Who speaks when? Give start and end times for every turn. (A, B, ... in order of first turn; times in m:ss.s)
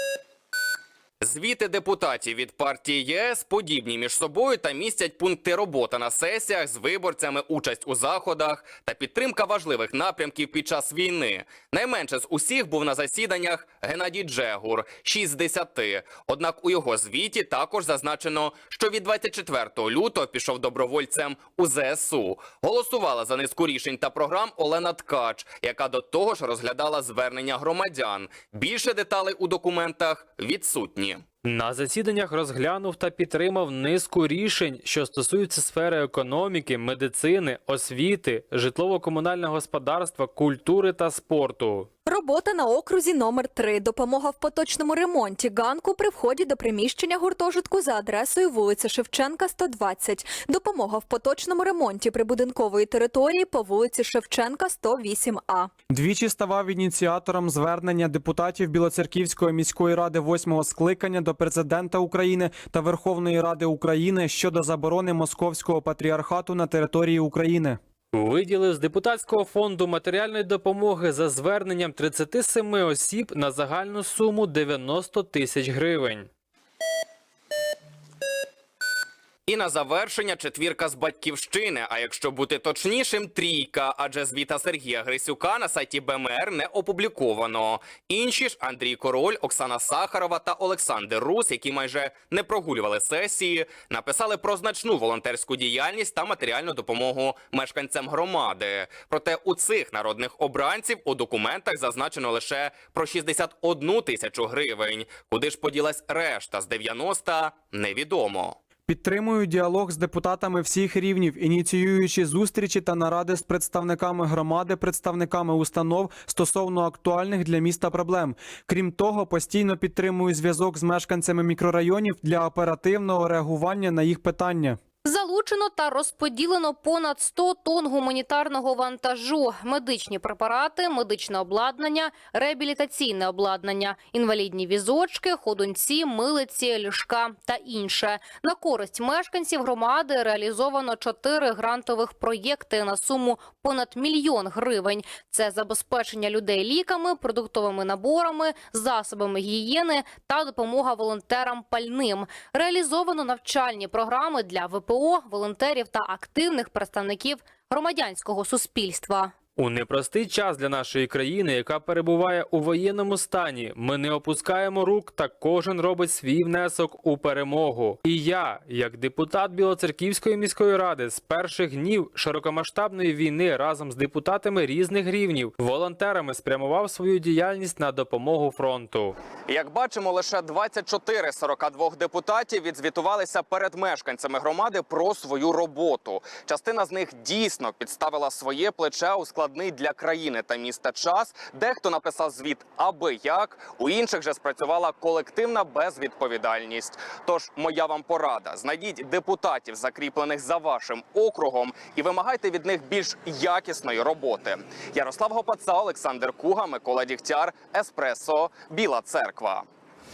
0:01.2-0:31.2 A
0:31.4-0:41.9 B
0:42.0-0:55.7 C
0:55.9-1:07.8 D
1:08.1-1:16.3 B
1:19.5-1:48.6 A
1:48.9-2:04.8 D
2:05.0-2:39.4 E
2:39.6-2:59.1 B
2:59.5-3:29.6 A